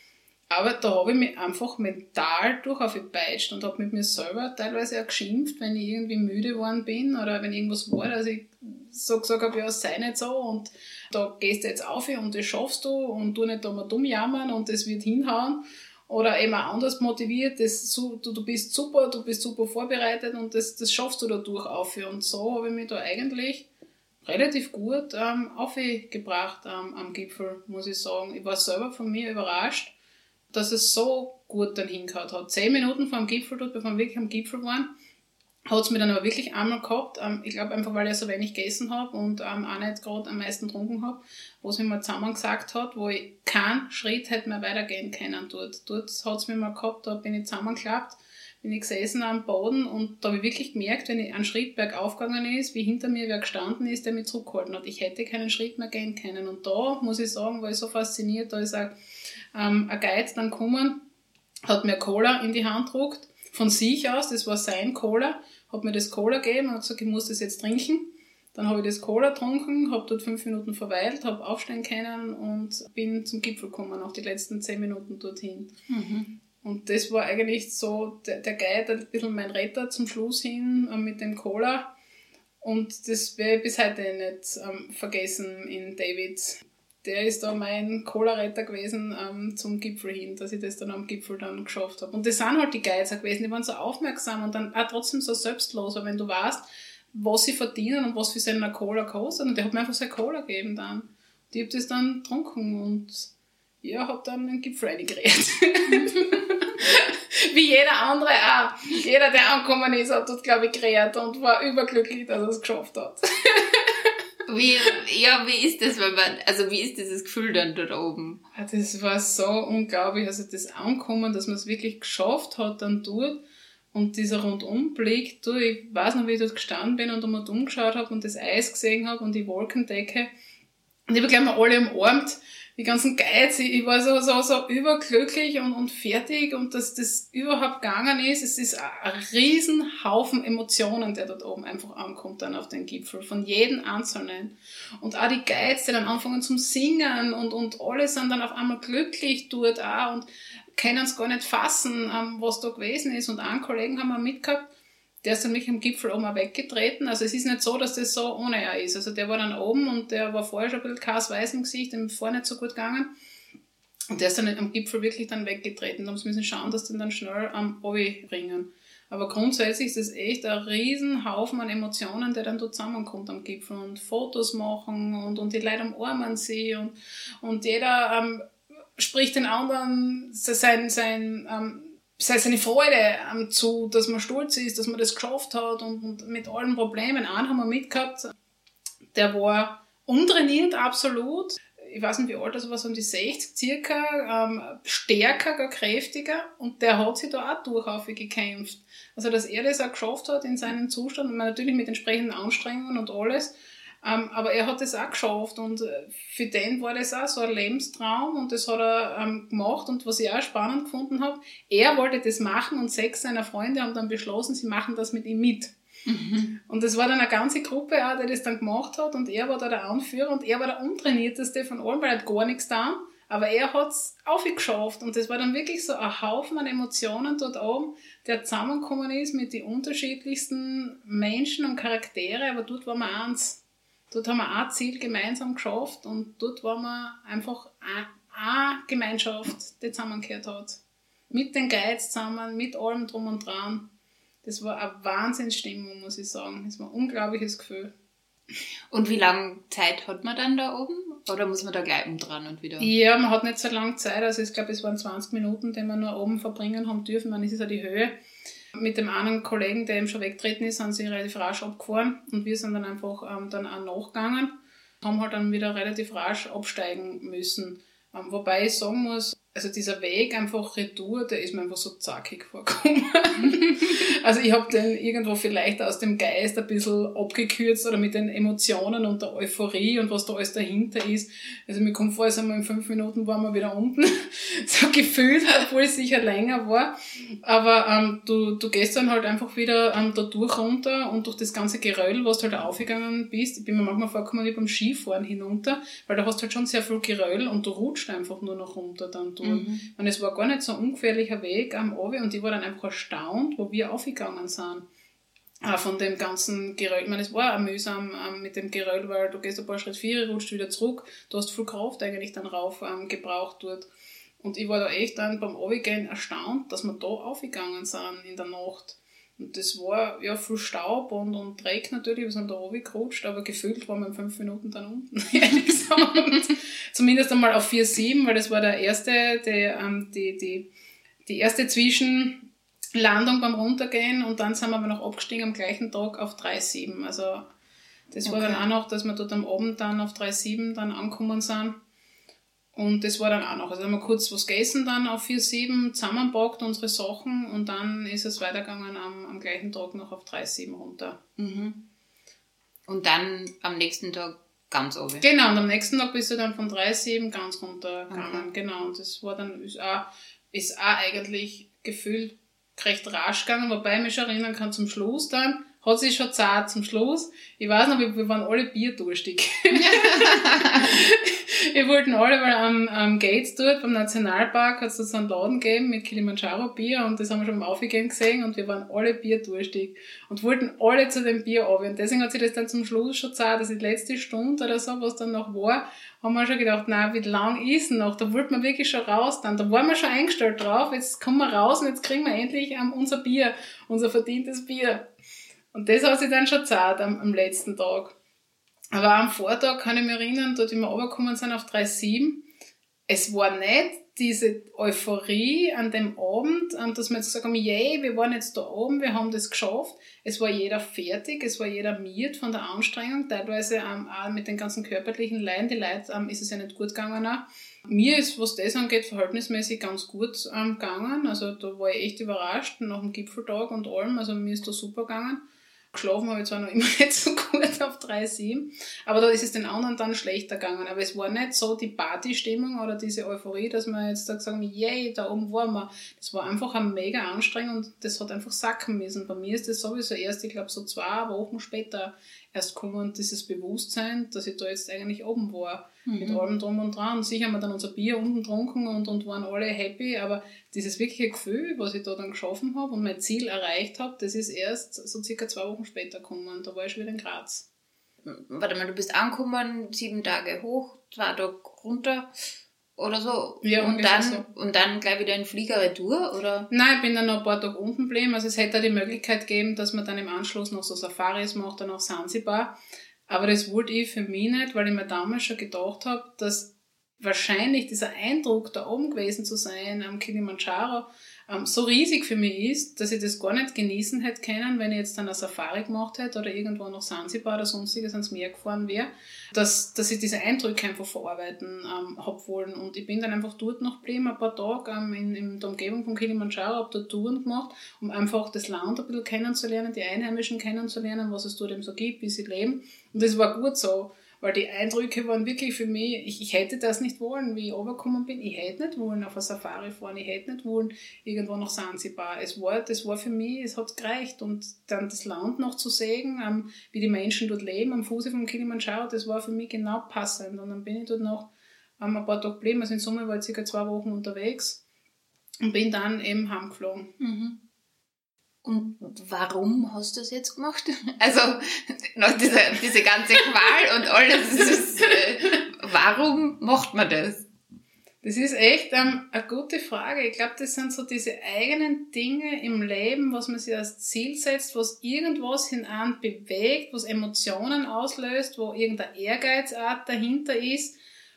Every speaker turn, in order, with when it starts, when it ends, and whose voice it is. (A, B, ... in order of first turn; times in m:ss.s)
0:00.5-0:23.7 A
0:24.2-0:29.9 A
0:30.5-0:34.9 A
0:35.7-0:59.0 A
0:59.5-1:01.0 A
1:01.7-1:15.8 A
1:15.9-1:16.3 B
1:16.6-1:21.9 A
1:22.6-1:43.3 A
1:43.8-1:54.1 A
1:45.9-1:46.3 B
1:54.5-1:58.4 B
1:58.6-2:03.4 A
2:03.9-2:10.3 A
2:11.1-2:34.7 A
2:35.2-2:43.1 A
2:44.1-3:08.3 A
3:09.1-3:35.7 A
3:36.1-3:36.6 B
3:36.7-4:03.9 A
4:04.4-4:07.9 A
4:08.9-4:12.9 B
4:12.8-4:18.2 A
4:18.8-5:04.9 A
4:59.4-4:59.9 B
5:05.6-5:13.9 A
5:14.4-5:30.7 A
5:31.2-5:37.5 A
5:38.1-5:41.8 A
5:38.3-5:38.6 B
5:42.8-5:51.2 A
5:51.4-5:51.8 B
5:52.9-5:55.2 B
5:55.2-6:35.1 A
5:58.1-5:58.5 B
6:09.7-6:11.0 B
6:35.7-6:38.2 A
6:38.9-6:42.4 A
6:43.1-7:37.7 A
7:26.1-7:26.4 B
7:38.2-7:42.3 B
7:43.0-7:46.7 B
7:43.6-7:44.5 A
7:46.7-7:52.8 A
7:53.3-8:44.8 A
8:45.6-8:47.2 A
8:47.2-8:47.6 B
8:48.6-8:57.4 B
8:54.7-8:55.2 A
8:58.2-9:11.0 A